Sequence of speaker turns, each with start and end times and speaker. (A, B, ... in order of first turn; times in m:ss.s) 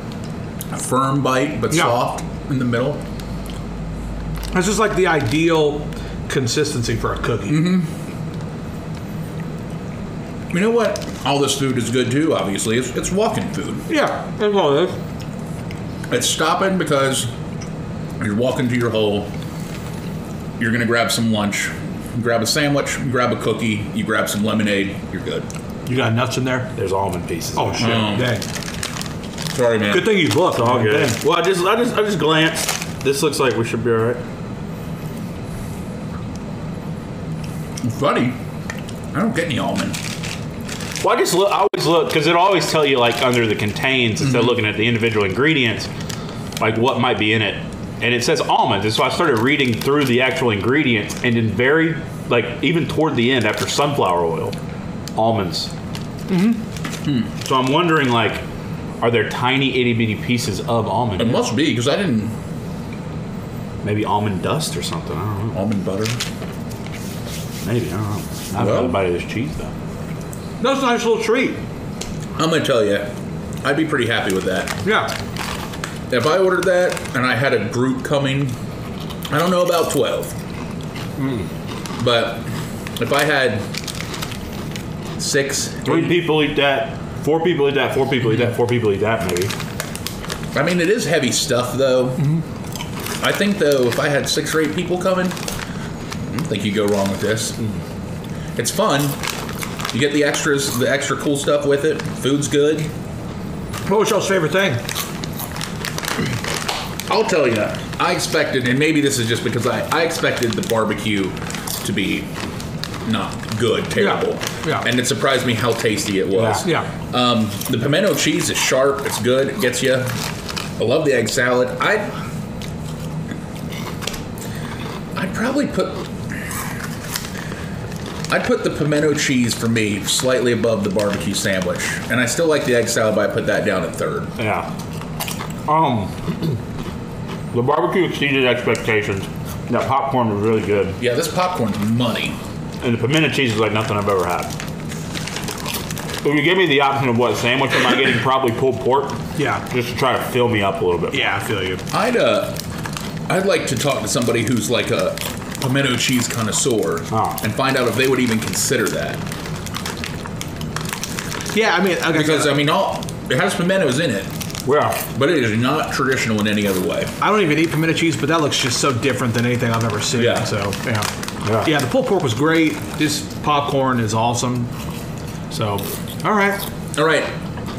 0:00.7-0:03.0 A
0:04.5-0:07.7 B
0:07.5-0:07.9 A
0:10.5-0:13.9 A
0:13.9-0:15.0 B
0:16.1-0:17.3 A
0:18.2-0:19.3 A
0:20.6-0:25.5 A
0:25.8-0:26.7 B
0:26.8-0:28.1 C
0:27.5-0:28.4 B
0:27.8-0:28.4 A
0:29.5-0:30.2 A
0:29.9-0:31.2 B
0:30.5-0:34.2 C
0:37.8-0:38.4 A
0:39.1-0:40.0 A
0:41.0-0:45.9 C
0:44.2-0:44.5 A
0:46.6-0:54.6 C
0:55.2-0:55.7 C
0:56.3-0:56.6 B
0:57.4-0:58.4 C
0:59.0-1:01.4 C
1:01.2-1:02.3 A
1:03.8-1:05.6 C
1:05.5-1:06.2 A
1:07.6-1:09.7 C
1:08.6-1:09.0 A
1:10.6-1:11.6 B
1:12.4-1:13.1 A
1:13.6-1:14.8 A
1:14.8-1:15.1 B
1:16.1-1:18.5 A
1:19.3-1:20.4 A
1:21.2-1:21.4 C
1:22.0-1:23.7 A
1:25.2-1:26.2 A
1:25.8-1:29.5 C
1:30.5-1:32.4 A
1:33.2-1:35.4 A
1:36.3-1:37.6 A
1:38.6-1:39.2 A
1:39.9-1:42.9 A
1:43.9-1:44.8 B
1:47.1-1:52.3 A
1:53.0-2:00.2 A
1:54.0-1:54.8 B
1:56.4-1:56.6 C
2:00.8-2:02.1 A
2:05.1-2:06.1 A
2:08.3-2:14.3 A
2:14.4-2:14.7 C
2:15.7-2:16.6 C
2:17.5-2:21.0 C
2:21.0-2:22.4 A
2:22.8-2:24.5 C
2:26.2-2:31.3 C
2:29.4-2:29.6 B
2:31.1-2:31.8 B
2:31.9-2:32.6 A
2:33.3-2:39.2 A
2:37.1-2:37.4 C
2:41.5-2:42.5 B
2:42.1-2:44.3 A
2:44.6-2:45.0 C
2:45.0-2:47.1 A
2:47.2-2:51.1 B
2:50.2-2:50.5 A
2:51.4-2:51.7 C
2:51.6-2:54.7 B
2:55.5-2:56.6 B
2:56.9-2:57.3 A